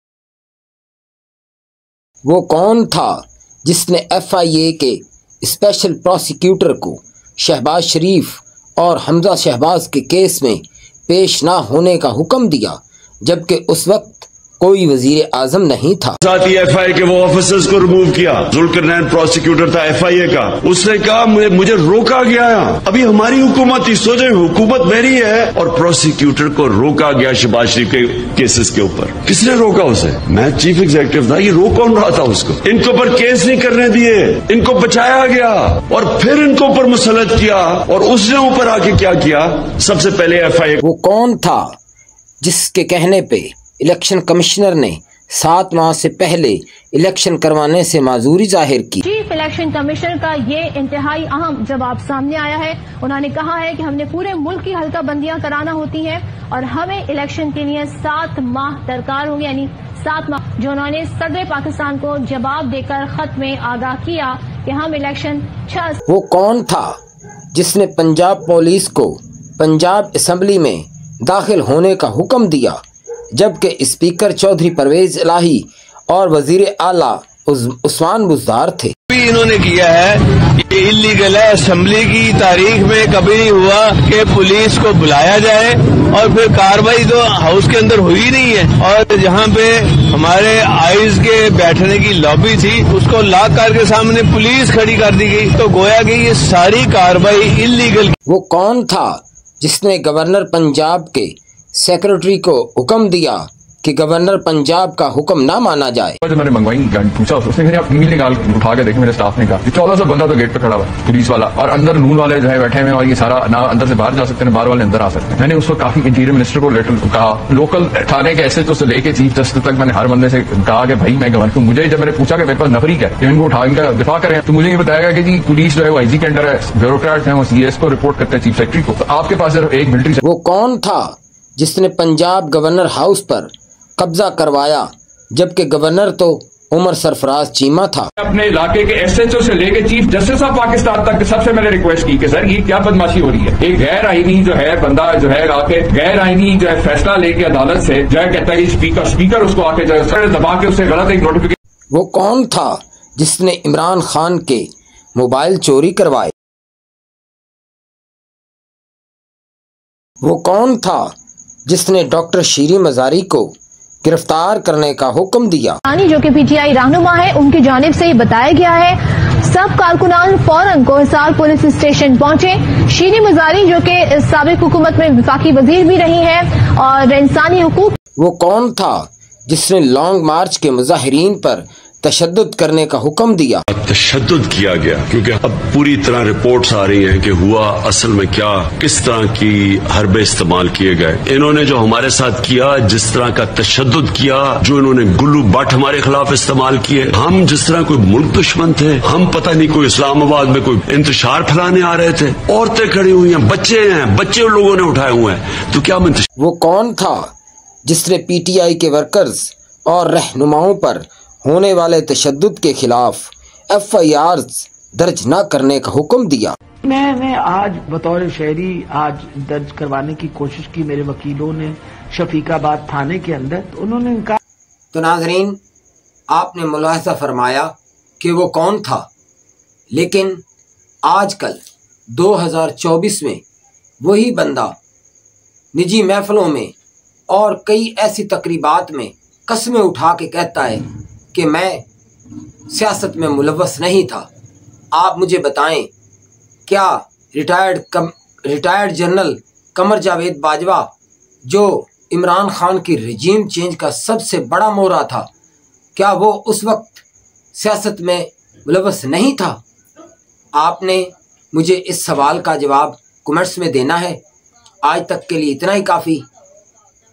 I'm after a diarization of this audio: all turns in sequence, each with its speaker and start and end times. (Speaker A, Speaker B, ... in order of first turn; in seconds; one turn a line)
Speaker A: 2.2-16.1
Speaker B: 16.2-40.8
Speaker A: 40.8-41.7
Speaker A: 42.4-49.0
Speaker C: 49.0-66.0
Speaker A: 66.1-66.9
Speaker A: 67.5-72.8
Speaker A: 73.4-78.9
Speaker D: 79.1-98.2
Speaker A: 98.3-106.2
Speaker E: 106.2-130.2
Speaker A: 130.2-138.1
Speaker E: 138.2-151.6
Speaker A: 151.9-156.3
Speaker A: 160.2-161.1
Speaker A: 161.7-163.5
Speaker A: 164.0-165.8
Speaker C: 165.9-178.0
Speaker A: 178.2-183.6
Speaker B: 183.7-206.3
Speaker A: 206.4-207.3
Speaker A: 207.9-216.6
Speaker F: 216.9-224.4
Speaker A: 224.9-225.6
Speaker A: 226.3-229.1
Speaker A: 229.9-230.4
Speaker A: 231.1-231.6
Speaker A: 232.1-233.4
Speaker A: 234.0-234.8
Speaker A: 235.7-236.7
Speaker A: 237.3-241.8
Speaker A: 242.7-244.3
Speaker A: 244.9-245.9
Speaker A: 246.7-250.9
Speaker A: 251.5-255.3
Speaker A: 256.0-257.0
Speaker A: 257.6-259.6
Speaker A: 260.6-264.2
Speaker A: 264.8-266.2